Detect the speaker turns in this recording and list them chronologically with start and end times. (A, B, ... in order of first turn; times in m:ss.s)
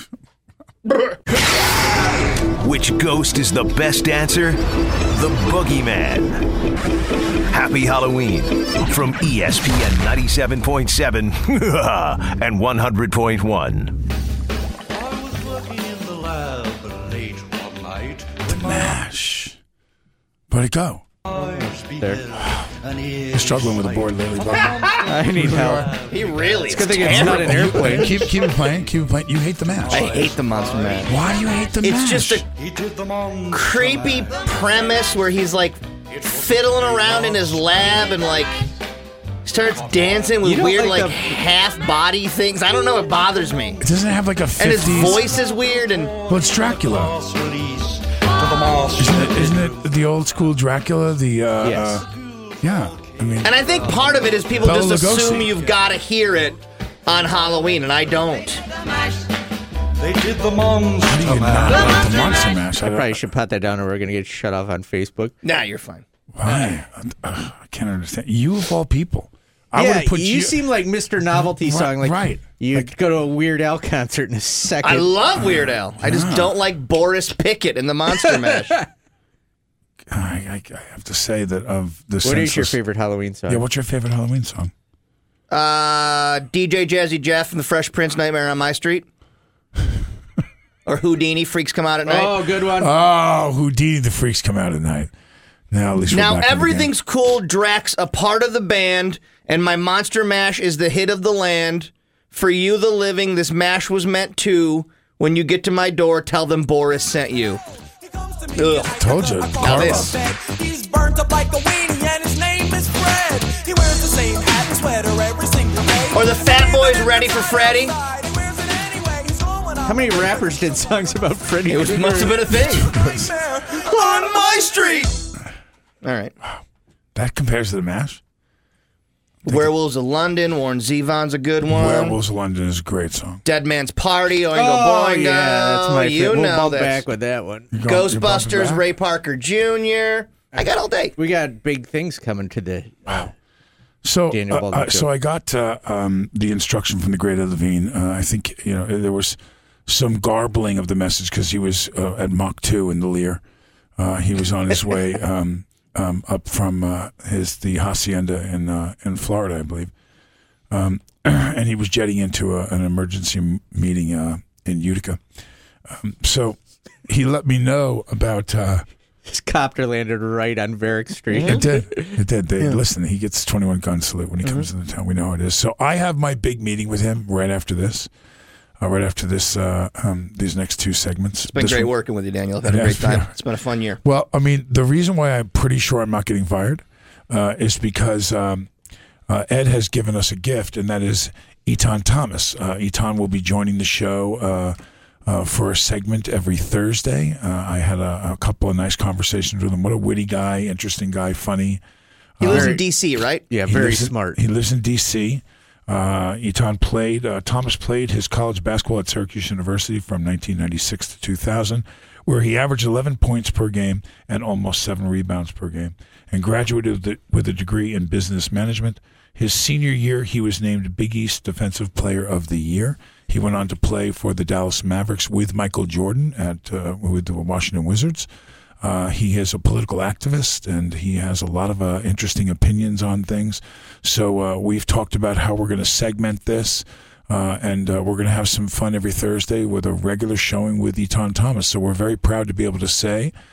0:02.6-0:06.4 A
0:07.5-0:14.0 A
0:18.4-0:19.6 B
0:20.5-0:21.0 B
0:21.3-0:22.3 C
0:22.4-0:22.7 B
0:23.3-0:26.0 B
0:24.6-0:25.0 D
0:25.0-0:25.9 C
0:26.0-0:28.2 D
0:26.6-0:28.2 C
0:26.9-0:30.1 B
0:29.9-0:31.1 D
0:31.0-0:32.4 B
0:31.8-0:32.4 D
0:33.5-0:38.5 D
0:39.4-0:43.8 D
0:40.4-0:41.4 C
0:43.8-0:45.3 B
0:44.6-0:46.2 D
0:46.3-0:47.2 B
0:48.9-0:52.1 B
0:51.6-0:52.0 C
0:52.6-0:53.5 B
0:53.4-0:58.7 D
0:54.6-0:55.5 B
1:01.0-1:03.2 B
1:02.8-1:05.3 C
1:05.4-1:06.0 D
1:06.3-1:10.6 B
1:09.7-1:15.2 C
1:11.3-1:12.9 B
1:14.8-1:18.8 D
1:16.0-1:16.6 B
1:20.1-1:22.8 B
1:22.2-1:23.6 C
1:23.5-1:24.7 B
1:25.5-1:29.0 D
1:30.8-1:32.4 D
1:32.0-1:32.9 C
1:32.8-1:35.1 B
1:35.7-1:36.9 B
1:36.1-1:47.6 D
1:48.0-2:01.2 E
1:48.6-1:48.9 D
1:49.0-1:50.2 B
1:49.6-1:50.1 D
1:56.1-1:57.9 D
1:59.8-2:02.6 C
2:01.7-2:02.9 D
2:02.8-2:03.3 B
2:02.9-2:05.1 E
2:03.7-2:05.1 D
2:06.0-2:06.3 D
2:07.1-2:08.2 B
2:09.4-2:12.2 D
2:11.6-2:13.4 B
2:13.4-2:17.0 D
2:14.5-2:17.7 C
2:17.7-2:18.8 B
2:17.8-2:21.1 D
2:21.2-2:23.3 C
2:24.0-2:33.4 B
2:24.3-2:25.1 C
2:34.0-2:39.9 B
2:40.7-2:45.2 B
2:45.8-2:48.8 B
2:49.2-2:52.2 C
2:51.3-2:51.6 D
2:51.4-2:58.1 B
2:58.8-3:01.9 B
3:01.5-3:04.0 D
3:02.6-3:03.3 B
3:04.0-3:08.7 B
3:09.3-3:21.8 B
3:22.4-3:22.8 B
3:22.4-3:23.4 D
3:22.5-3:22.8 C
3:23.5-3:24.4 C
3:23.7-3:48.3 B
3:48.8-4:03.3 B